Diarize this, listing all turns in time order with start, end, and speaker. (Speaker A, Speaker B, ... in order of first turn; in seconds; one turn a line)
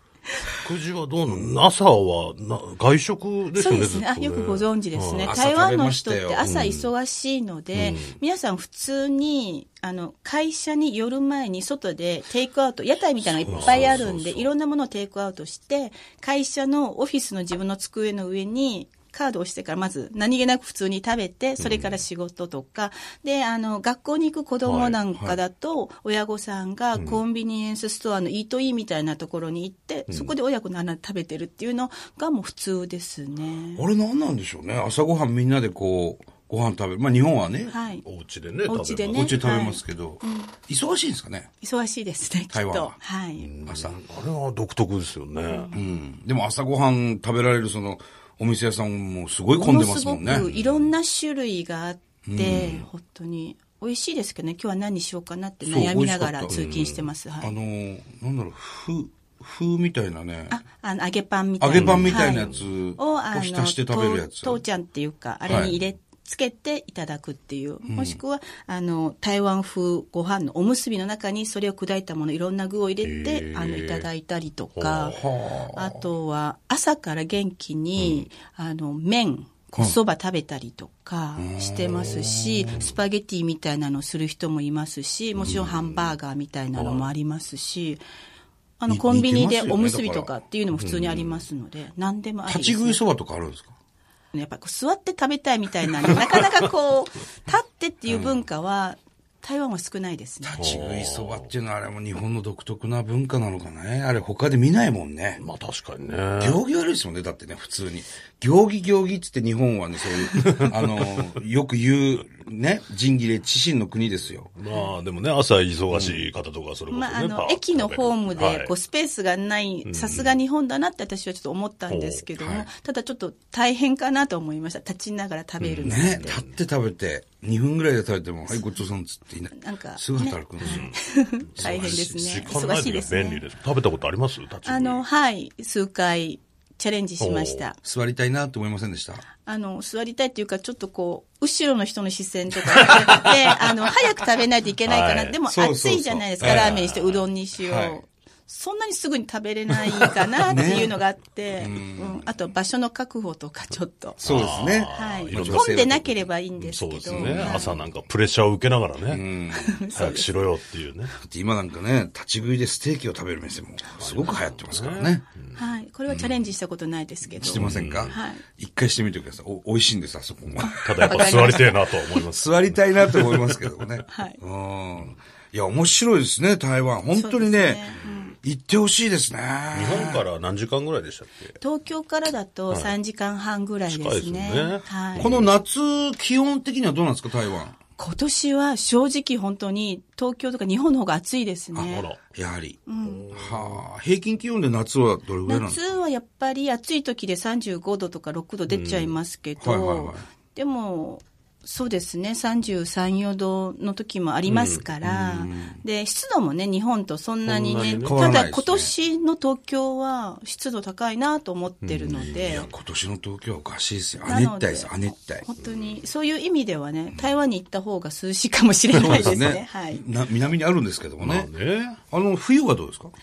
Speaker A: 0.6-5.4
Speaker B: 3.5-33.8
Speaker C: 5.2-6.5
Speaker A: 6.4-6.9
Speaker A: 7.7-8.2
Speaker A: 13.2-14.5
Speaker C: 13.5-14.0
Speaker A: 21.6-21.9
Speaker A: 24.6-25.0
Speaker A: 26.9-27.2
Speaker A: 30.1-30.3
Speaker C: 33.8-37.7
Speaker B: 37.7-38.0
Speaker A: 38.0-39.5
Speaker B: 38.6-40.5
Speaker C: 39.1-41.5
Speaker B: 41.6-43.5
Speaker C: 42.5-42.9
Speaker A: 43.4-45.8
Speaker C: 43.6-44.0
Speaker C: 45.7-50.5
Speaker B: 49.6-57.5
Speaker A: 50.3-50.9
Speaker C: 52.2-52.9
Speaker C: 55.6-56.6
Speaker A: 56.5-57.1
Speaker C: 57.4-60.6
Speaker B: 60.5-75.2
Speaker C: 61.6-64.6
Speaker A: 61.8-62.7
Speaker C: 65.5-65.8
Speaker C: 67.9-68.2
Speaker A: 73.0-74.1
Speaker A: 74.8-75.2
Speaker C: 75.1-76.0
Speaker B: 75.7-88.0
Speaker C: 81.3-82.9
Speaker A: 85.3-86.2
Speaker A: 86.7-87.1
Speaker B: 88.8-93.0
Speaker C: 88.9-90.3
Speaker A: 90.8-91.4
Speaker C: 92.5-93.8
Speaker B: 94.3-100.7
Speaker A: 96.1-96.4
Speaker C: 98.1-98.4
Speaker C: 100.4-105.4
Speaker A: 100.6-101.5
Speaker A: 105.4-106.6
Speaker C: 106.4-114.5
Speaker A: 110.6-111.1
Speaker A: 114.5-118.7
Speaker C: 115.9-116.2
Speaker B: 116.9-126.3
Speaker A: 119.8-120.4
Speaker A: 121.9-122.3
Speaker C: 122.4-122.7
Speaker A: 125.6-126.6
Speaker C: 125.8-130.9
Speaker B: 128.5-128.8
Speaker B: 129.5-133.4
Speaker A: 130.6-131.0
Speaker A: 131.5-135.0
Speaker C: 131.6-132.1
Speaker B: 134.7-137.8
Speaker A: 137.2-137.7
Speaker C: 137.8-139.2
Speaker B: 139.3-154.2
Speaker A: 142.8-143.6
Speaker A: 144.8-145.4
Speaker C: 145.4-146.8
Speaker A: 146.4-147.2
Speaker C: 147.6-148.0
Speaker C: 150.4-151.0
Speaker C: 151.5-152.3
Speaker A: 154.2-159.2
Speaker C: 154.2-156.2
Speaker B: 154.8-157.8
Speaker C: 157.0-157.8
Speaker C: 159.1-159.9
Speaker B: 159.5-160.3
Speaker A: 159.9-161.2
Speaker C: 161.2-165.2
Speaker A: 164.0-165.6
Speaker B: 165.5-168.4
Speaker C: 167.4-171.6
Speaker A: 167.4-168.2
Speaker A: 170.5-173.9
Speaker B: 170.6-171.8
Speaker C: 172.3-180.2
Speaker B: 174.1-174.4
Speaker B: 177.1-178.4
Speaker A: 179.7-181.5
Speaker B: 181.6-185.4
Speaker A: 182.7-182.9
Speaker A: 183.9-185.5
Speaker C: 185.2-187.7
Speaker B: 188.0-192.1
Speaker C: 191.7-195.9
Speaker A: 191.8-192.2
Speaker B: 192.9-193.3
Speaker A: 193.0-193.8
Speaker B: 195.4-212.7
Speaker A: 198.7-199.1
Speaker C: 199.6-200.2
Speaker A: 204.4-204.9
Speaker C: 205.0-205.8
Speaker A: 207.4-208.3
Speaker C: 208.0-208.9
Speaker A: 211.8-212.7
Speaker C: 212.3-215.4
Speaker B: 214.2-220.0
Speaker A: 215.6-216.0
Speaker C: 218.9-221.5
Speaker A: 219.0-219.4
Speaker A: 221.2-222.0
Speaker C: 222.1-223.1